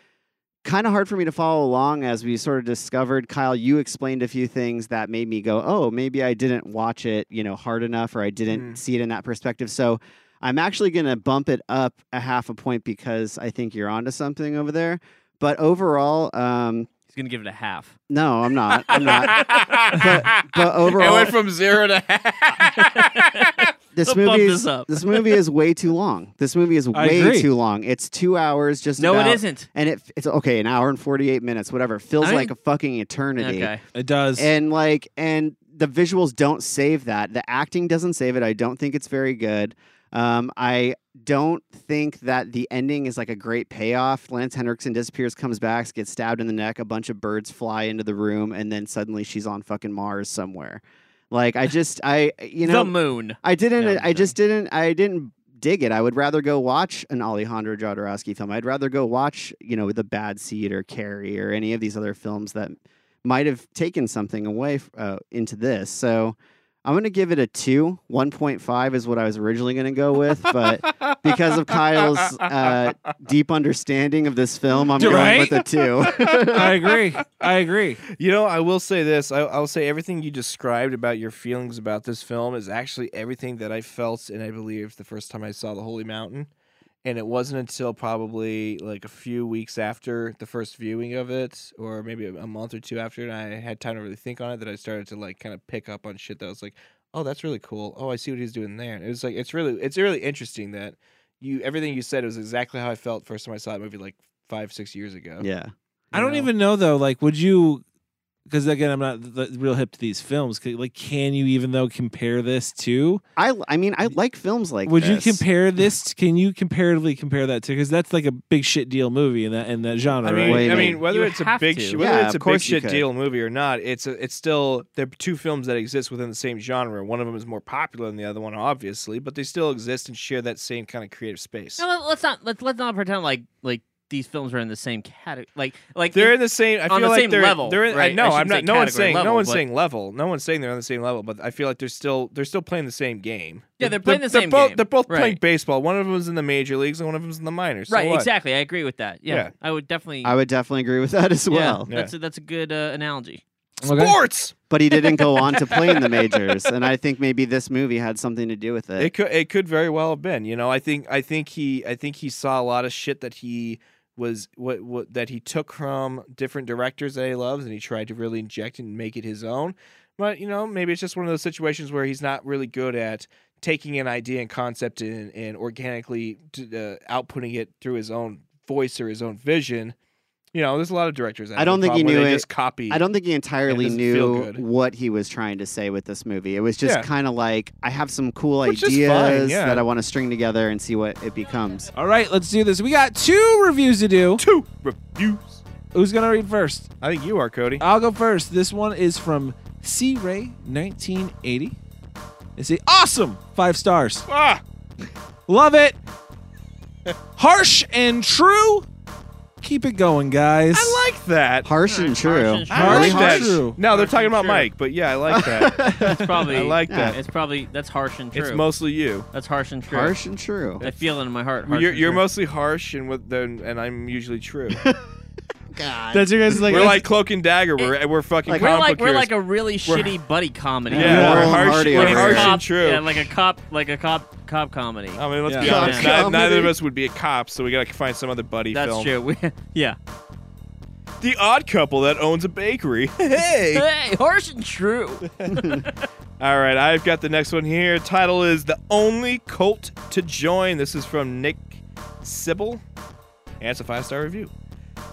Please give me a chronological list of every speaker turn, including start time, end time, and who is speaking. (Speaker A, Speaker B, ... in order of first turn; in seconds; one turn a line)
Speaker A: 0.6-16.9
Speaker B: 8.5-8.8
Speaker C: 17.1-17.9
Speaker A: 18.1-21.4
Speaker C: 18.9-20.2
Speaker B: 18.9-23.7
Speaker C: 22.6-25.4
Speaker A: 23.9-33.7
Speaker D: 26.9-27.5
Speaker C: 29.0-29.6
Speaker C: 32.2-32.5
Speaker C: 33.4-33.8
Speaker D: 33.9-34.5
Speaker A: 34.4-76.7
Speaker C: 52.6-54.3
Speaker B: 70.9-72.7
Speaker B: 74.8-77.0
Speaker D: 75.0-75.6
Speaker D: 76.5-78.0
Speaker B: 78.1-86.5
Speaker B: 87.0-105.5
Speaker A: 105.4-106.5
Speaker D: 106.1-107.8
Speaker D: 108.5-113.2
Speaker A: 113.3-115.4
Speaker D: 114.8-120.9
Speaker B: 120.2-131.8
Speaker A: 120.4-121.0
Speaker C: 121.1-122.0
Speaker A: 122.0-123.0
Speaker C: 131.8-139.6
Speaker B: 136.1-148.3
Speaker C: 143.8-145.4
Speaker C: 147.9-150.4
Speaker A: 150.2-151.9
Speaker C: 151.5-153.4
Speaker D: 153.8-154.2
Speaker B: 153.9-154.5
Speaker A: 154.7-159.1
Speaker C: 155.4-155.9
Speaker B: 155.7-155.9
Speaker B: 159.0-179.9
Speaker B: 180.5-183.0
Speaker A: 181.6-191.9
Speaker B: 183.7-184.6
Speaker B: 188.7-189.8
Speaker D: 191.9-194.4
Speaker B: 194.4-195.6
Speaker D: 195.9-196.9
Speaker B: 197.0-197.8
Speaker D: 197.8-201.8
Speaker D: 202.6-204.3
Speaker B: 204.3-204.6
Speaker D: 205.5-206.0
Speaker D: 207.4-208.9
Speaker D: 209.6-211.0
Speaker B: 210.7-211.7
Speaker A: 211.6-213.6
Speaker C: 211.9-214.7
Speaker B: 212.7-217.2
Speaker D: 212.7-213.8
Speaker A: 215.3-216.2
Speaker C: 215.9-218.7
Speaker A: 216.9-217.2
Speaker B: 218.3-219.3
Speaker C: 219.3-220.2
Speaker A: 219.9-220.8
Speaker B: 220.8-221.1
Speaker C: 220.8-222.2
Speaker B: 221.7-224.8
Speaker A: 224.7-225.0
Speaker A: 225.7-226.9
Speaker D: 226.1-227.0
Speaker B: 226.7-229.3
Speaker A: 228.4-228.7
Speaker C: 228.5-236.3
Speaker B: 229.8-230.1
Speaker A: 230.9-232.6
Speaker B: 230.9-233.1
Speaker D: 230.9-231.6
Speaker B: 235.2-239.1
Speaker D: 235.4-235.7
Speaker A: 235.6-236.7
Speaker C: 238.7-240.0
Speaker B: 241.2-243.8
Speaker C: 243.7-246.0
Speaker B: 245.4-245.9
Speaker B: 246.4-252.8
Speaker B: 253.6-254.5